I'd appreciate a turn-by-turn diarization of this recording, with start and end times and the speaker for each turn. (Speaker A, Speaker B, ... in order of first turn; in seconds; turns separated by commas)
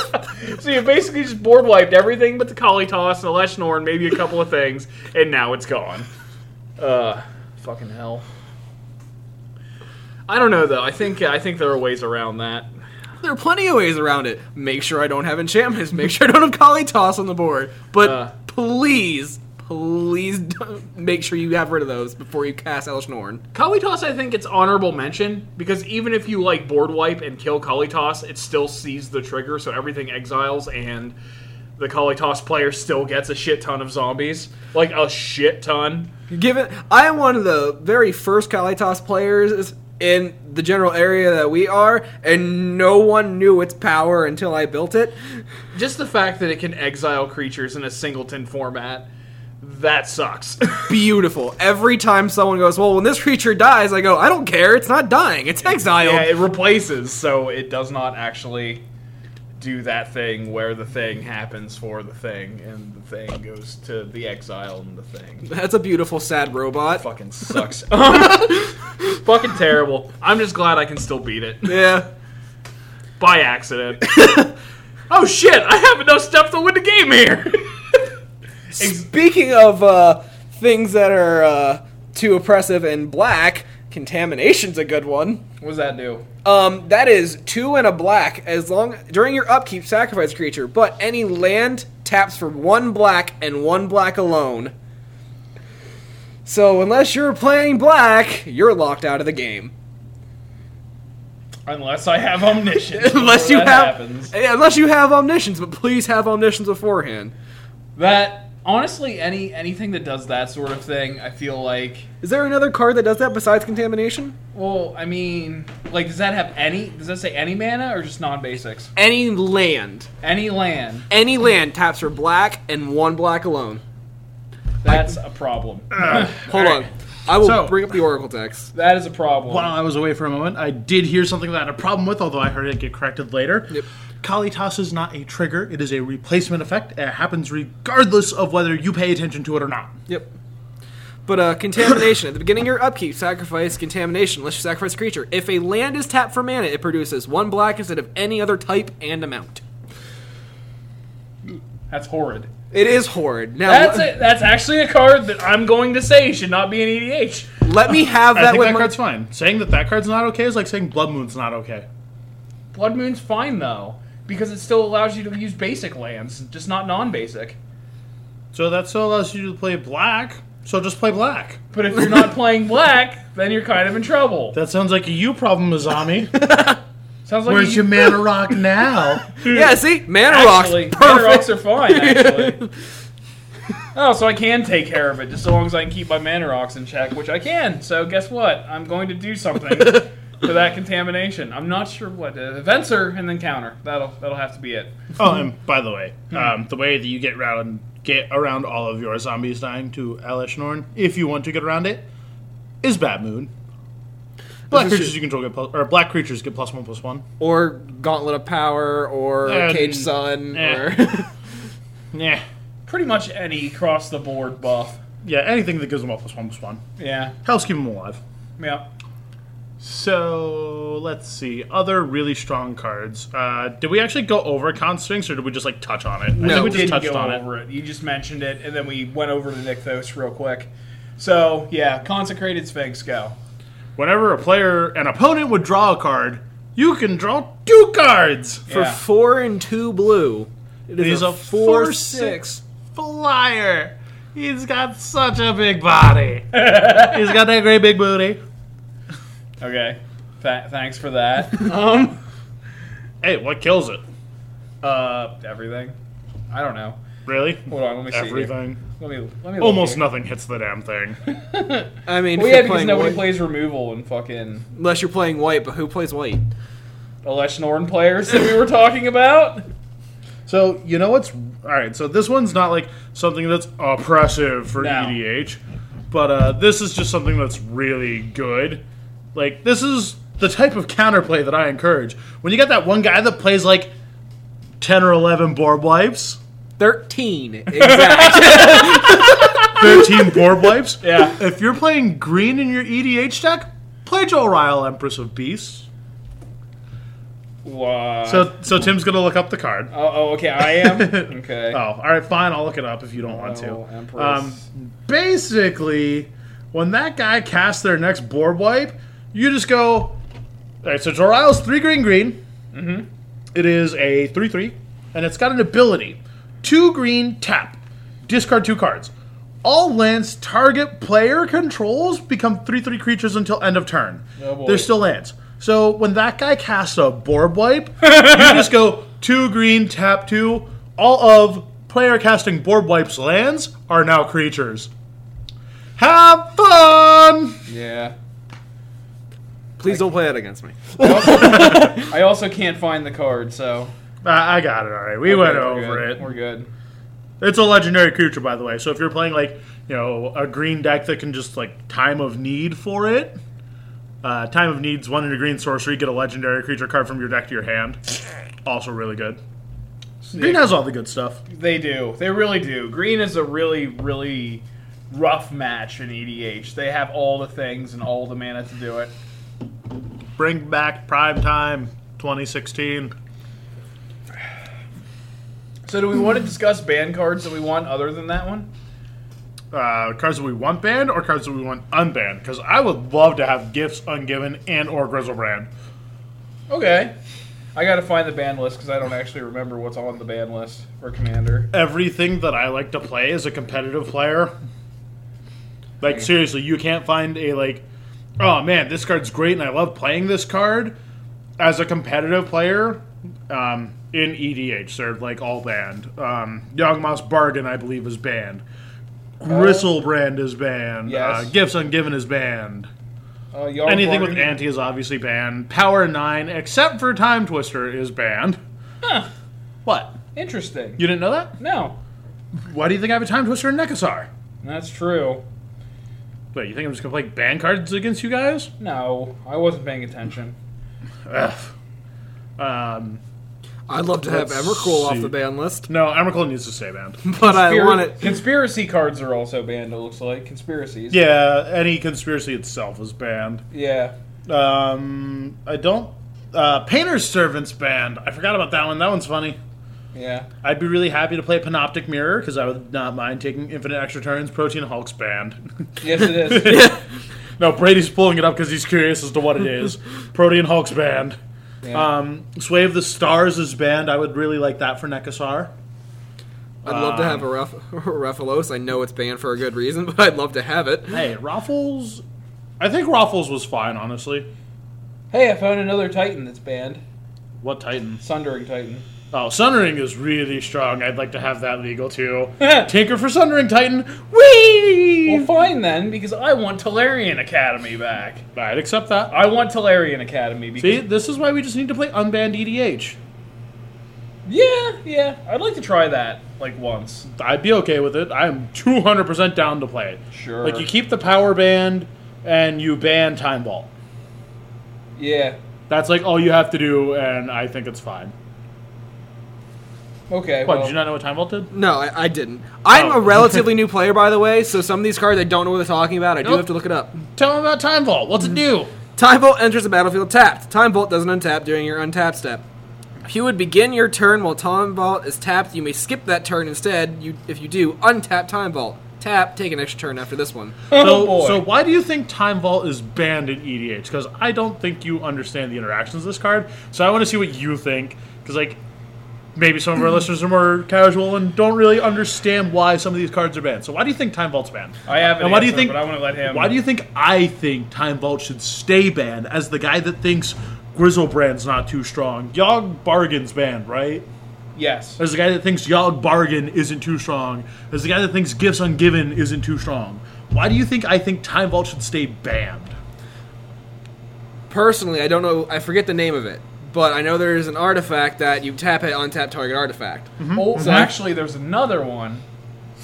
Speaker A: 0.3-6.1, Speaker A: 6.8-8.2, Speaker A: 10.3-12.7, Speaker B: 13.2-23.4, Speaker A: 18.0-18.3, Speaker A: 23.5-31.1, Speaker A: 31.8-36.1, Speaker B: 36.3-45.2, Speaker A: 45.7-49.1, Speaker A: 49.6-50.9, Speaker B: 50.9-56.3, Speaker A: 55.7-58.8, Speaker A: 59.6-65.5, Speaker B: 65.5-67.0, Speaker A: 67.0-72.0, Speaker B: 71.7-72.1, Speaker A: 73.2-74.2, Speaker B: 74.2-74.5, Speaker A: 75.1-77.8, Speaker A: 78.7-79.1, Speaker B: 78.8-85.4, Speaker A: 85.6-86.3, Speaker B: 86.4-94.7, Speaker B: 96.5-99.7, Speaker A: 101.7-104.3, Speaker B: 102.8-107.3, Speaker A: 108.0-112.1, Speaker B: 112.2-114.4, Speaker A: 114.5-118.9, Speaker B: 119.0-120.1, Speaker A: 120.2-121.1, Speaker B: 121.1-123.8, Speaker A: 124.8-126.4, Speaker B: 124.9-125.2, Speaker C: 126.0-127.8, Speaker B: 126.1-128.7, Speaker A: 128.7-129.7, Speaker C: 129.5-139.9, Speaker B: 140.1-140.3, Speaker B: 141.3-149.6, Speaker A: 151.9-152.5, Speaker B: 152.7-154.1, Speaker A: 153.7-157.5, Speaker B: 157.6-158.9, Speaker C: 158.3-161.9, Speaker A: 162.7-167.6, Speaker C: 168.5-171.6, Speaker A: 171.7-174.6, Speaker C: 174.5-176.3, Speaker B: 176.4-176.8, Speaker A: 177.2-178.1, Speaker C: 177.5-179.4, Speaker B: 179.4-182.7, Speaker A: 180.3-182.6, Speaker A: 183.9-194.9, Speaker C: 195.2-202.1, Speaker C: 202.8-203.5, Speaker B: 204.7-205.1, Speaker C: 204.7-207.2, Speaker B: 207.4-211.3, Speaker C: 209.4-211.1, Speaker C: 212.1-212.4, Speaker A: 212.9-215.0, Speaker C: 215.2-216.8, Speaker A: 217.0-217.4, Speaker C: 217.4-218.2, Speaker A: 218.6-218.9, Speaker C: 219.8-227.4, Speaker B: 226.4-226.9, Speaker A: 226.4-233.4, Speaker C: 234.0-238.7, Speaker A: 238.7-239.0, Speaker B: 238.7-242.6, Speaker C: 241.0-248.4, Speaker A: 246.5-247.2, Speaker A: 249.6-252.2, Speaker C: 253.2-254.0, Speaker A: 254.8-255.9, Speaker A: 256.5-257.0, Speaker C: 257.3-258.8, Speaker A: 257.7-260.0, Speaker C: 259.6-261.2, Speaker A: 261.3-264.7, Speaker B: 262.1-263.3, Speaker B: 264.8-266.4, Speaker A: 267.2-269.7, Speaker C: 270.5-283.9, Speaker A: 274.8-275.2, Speaker C: 284.8-286.4, Speaker B: 286.8-290.1, Speaker A: 287.7-289.8, Speaker C: 289.7-295.9, Speaker A: 291.0-291.4, Speaker A: 297.6-298.5, Speaker C: 298.2-299.9, Speaker A: 299.9-301.8, Speaker C: 300.6-310.2, Speaker A: 303.3-304.6, Speaker C: 310.8-312.4, Speaker A: 312.7-313.1, Speaker C: 313.5-319.1, Speaker C: 319.6-334.9, Speaker A: 324.4-324.9, Speaker C: 336.0-337.6, Speaker A: 337.7-338.1, Speaker B: 339.8-342.1, Speaker A: 341.0-343.9, Speaker C: 341.0-342.0, Speaker C: 344.2-346.2, Speaker A: 345.2-346.7, Speaker C: 347.4-353.4, Speaker C: 354.2-359.4, Speaker A: 360.2-360.7, Speaker C: 360.3-361.4, Speaker A: 361.5-369.1, Speaker C: 370.4-373.1, Speaker A: 375.9-378.7, Speaker C: 379.7-385.7, Speaker A: 386.7-387.1, Speaker A: 387.8-391.7, Speaker C: 391.7-394.5, Speaker C: 396.0-397.8, Speaker C: 398.4-400.9, Speaker C: 401.6-408.6, Speaker C: 409.4-412.9, Speaker A: 409.5-409.9, Speaker A: 411.1-411.5, Speaker A: 413.5-414.6, Speaker C: 413.9-418.6, Speaker A: 419.0-419.3, Speaker C: 419.9-420.2, Speaker A: 420.4-421.0, Speaker C: 421.0-421.6, Speaker A: 421.6-422.0, Speaker C: 422.6-424.3, Speaker A: 424.6-425.4, Speaker C: 426.5-428.7, Speaker A: 428.8-430.6, Speaker C: 431.3-431.7, Speaker C: 432.6-433.2, Speaker B: 433.9-435.9, Speaker C: 434.2-435.3, Speaker C: 435.9-437.2, Speaker B: 437.2-438.4, Speaker A: 437.4-441.2, Speaker C: 441.1-443.6, Speaker A: 443.7-444.1, Speaker C: 444.5-449.6, Speaker A: 450.1-450.5, Speaker C: 450.6-457.0, Speaker A: 456.0-456.9, Speaker B: 456.5-457.0, Speaker C: 457.6-461.4, Speaker C: 461.9-465.7, Speaker C: 466.8-467.5, Speaker B: 466.9-471.2, Speaker C: 471.1-472.2, Speaker C: 472.8-474.5, Speaker A: 475.3-477.0, Speaker C: 477.6-478.2, Speaker A: 478.2-479.1, Speaker C: 479.3-485.5, Speaker A: 482.6-482.9, Speaker A: 485.2-488.4, Speaker C: 488.6-489.4, Speaker A: 489.3-491.0, Speaker C: 490.8-493.2, Speaker A: 494.5-497.3, Speaker C: 497.3-503.9, Speaker A: 500.3-500.9, Speaker A: 505.2-505.6, Speaker C: 505.9-508.3, Speaker A: 510.3-510.9, Speaker C: 510.6-511.7, Speaker B: 511.7-517.2, Speaker C: 512.9-513.7, Speaker C: 517.2-518.9, Speaker B: 519.2-522.6, Speaker B: 523.2-530.8, Speaker A: 530.9-531.6, Speaker C: 530.9-538.8, Speaker C: 539.5-554.3, Speaker A: 545.1-546.7, Speaker A: 554.8-555.2, Speaker C: 555.2-563.0, Speaker B: 564.7-571.0, Speaker C: 570.4-571.1, Speaker A: 570.5-572.5